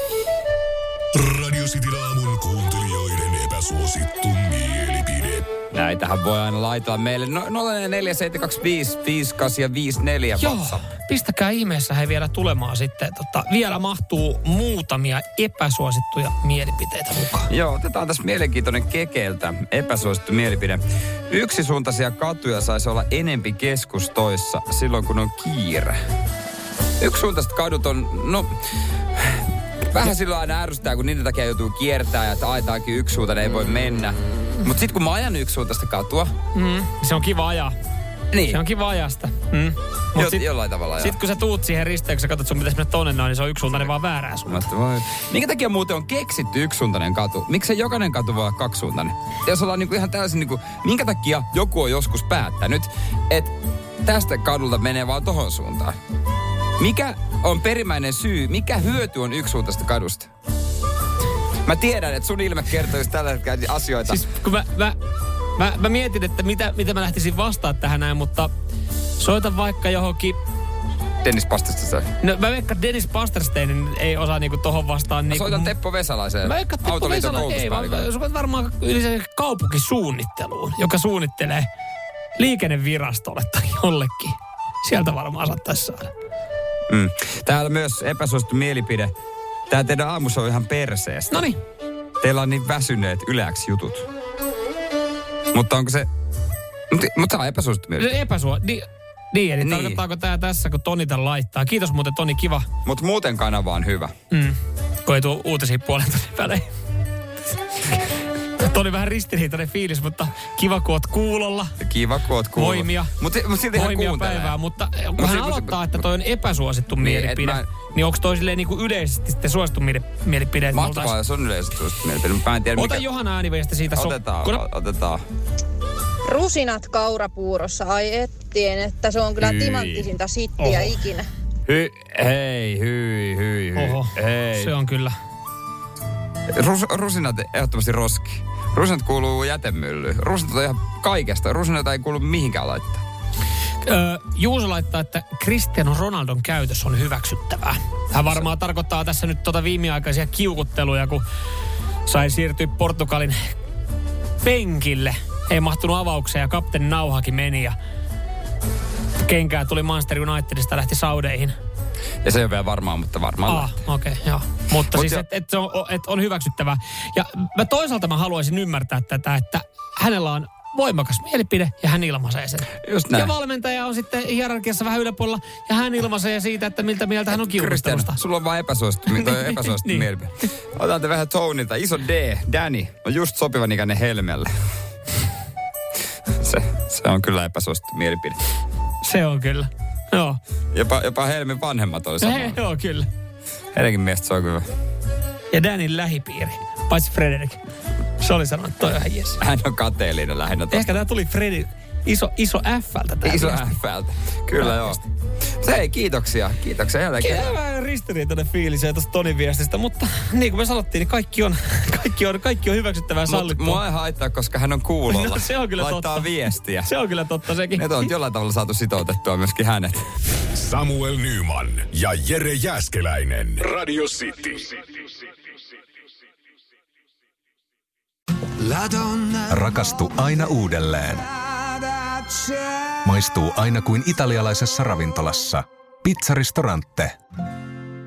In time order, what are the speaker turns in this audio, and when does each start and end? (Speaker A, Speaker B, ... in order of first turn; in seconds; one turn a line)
Speaker A: 1.1-5.5
Speaker B: 5.7-10.9
Speaker C: 10.3-17.5
Speaker B: 17.5-25.9
Speaker B: 27.0-28.5
Speaker B: 29.2-36.3
Speaker C: 36.5-37.7
Speaker B: 38.3-38.6
Speaker C: 38.5-44.6
Speaker B: 40.1-41.1
Speaker B: 44.5-56.0
Speaker B: 56.8-60.3
Speaker B: 61.6-64.3
Speaker C: 64.1-65.0
Speaker C: 65.6-68.5
Speaker C: 69.2-70.4
Speaker B: 71.2-72.1
Speaker C: 72.2-75.7
Speaker B: 75.3-78.1
Speaker C: 76.4-81.7
Speaker C: 82.4-86.1
Speaker B: 86.9-89.1
Speaker B: 89.7-91.4
Speaker C: 91.3-91.6
Speaker B: 92.2-94.1
Speaker B: 95.5-96.1
Speaker B: 96.9-98.2
Speaker C: 98.0-102.7
Speaker B: 99.6-100.0
Speaker B: 102.8-104.1
Speaker C: 104.3-106.7
Speaker C: 108.6-111.7
Speaker B: 111.8-114.6
Speaker C: 112.5-113.1
Speaker C: 113.7-121.1
Speaker B: 115.2-116.0
Speaker B: 117.0-117.7
Speaker B: 120.7-123.0
Speaker C: 122.7-124.6
Speaker B: 123.9-125.2
Speaker D: 126.2-131.2
Speaker B: 129.4-130.1
Speaker C: 130.6-130.9
Speaker B: 131.7-134.7
Speaker C: 133.8-135.1
Speaker B: 136.5-143.0
Speaker C: 143.8-151.2
Speaker C: 152.1-153.3
Speaker C: 154.4-157.7
Speaker C: 159.2-161.5
Speaker B: 162.2-163.7
Speaker C: 163.4-178.2
Speaker B: 164.9-165.2
Speaker B: 172.8-173.3
Speaker B: 177.3-184.5
Speaker C: 179.1-180.1
Speaker B: 186.4-188.4
Speaker C: 189.0-190.4
Speaker B: 190.7-192.6
Speaker C: 192.2-193.1
Speaker B: 193.7-194.7
Speaker C: 195.5-197.6
Speaker C: 198.2-199.4
Speaker B: 199.4-200.9
Speaker C: 200.7-203.8
Speaker B: 203.2-205.0
Speaker C: 204.6-205.0
Speaker B: 205.6-207.5
Speaker C: 207.2-213.8
Speaker B: 213.3-216.9
Speaker C: 215.1-217.9
Speaker B: 217.8-220.0
Speaker A: 220.6-224.7
Speaker E: 229.5-231.2
Speaker E: 233.0-237.1